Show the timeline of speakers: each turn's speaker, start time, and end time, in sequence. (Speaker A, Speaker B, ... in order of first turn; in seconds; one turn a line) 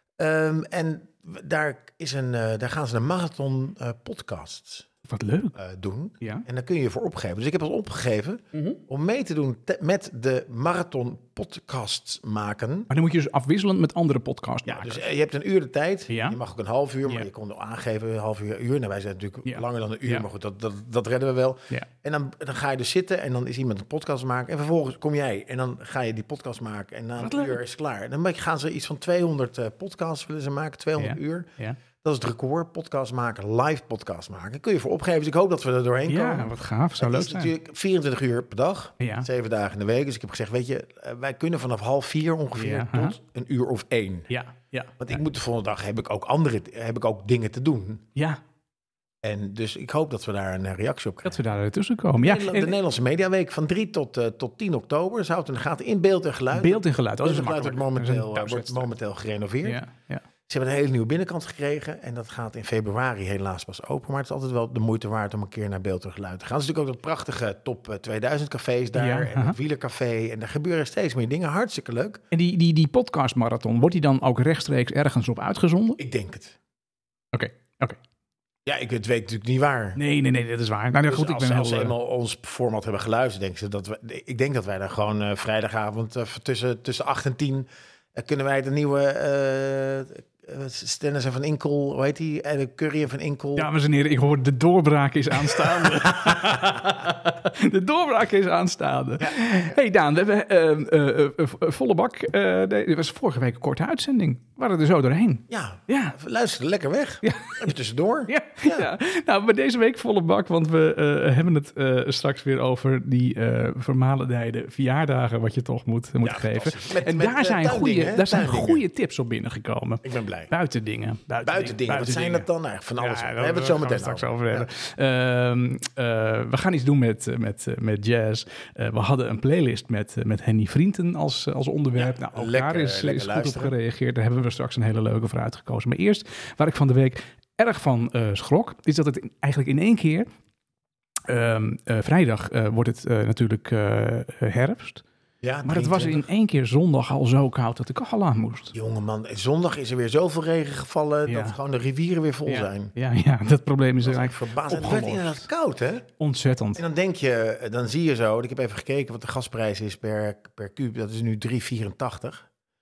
Speaker A: 0.2-4.9
Speaker B: 5.1-5.6
Speaker A: 5.6-12.9
Speaker B: 12.9-15.1
Speaker A: 14.7-31.5
Speaker B: 16.1-16.4
Speaker B: 19.5-20.3
Speaker B: 27.2-27.6
Speaker B: 31.0-31.8
Speaker A: 32.0-44.3
Speaker B: 36.1-37.5
Speaker B: 39.0-39.3
Speaker B: 42.6-43.2
Speaker B: 44.3-45.2
Speaker A: 45.0-48.0
Speaker B: 48.1-48.4
Speaker A: 49.2-51.4
Speaker B: 51.2-52.8
Speaker A: 52.2-59.8
Speaker B: 56.5-58.9
Speaker B: 59.6-60.2
Speaker A: 60.5-72.2
Speaker B: 69.0-69.6
Speaker B: 72.3-76.0
Speaker A: 76.0-76.6
Speaker B: 77.3-78.0
Speaker A: 78.7-80.0
Speaker B: 80.0-81.9
Speaker A: 81.1-93.7
Speaker B: 93.6-106.2
Speaker A: 99.2-99.7
Speaker A: 105.5-108.9
Speaker B: 107.2-107.7
Speaker B: 108.3-122.5
Speaker A: 116.2-118.8
Speaker A: 120.0-120.5
Speaker A: 121.4-124.7
Speaker B: 123.0-140.3
Speaker A: 132.0-133.7
Speaker B: 141.3-145.0
Speaker A: 145.4-146.3
Speaker B: 145.7-148.8
Speaker A: 148.7-152.9
Speaker B: 151.3-151.6
Speaker B: 152.5-155.5
Speaker A: 154.0-156.1
Speaker B: 156.2-156.8
Speaker A: 156.8-162.5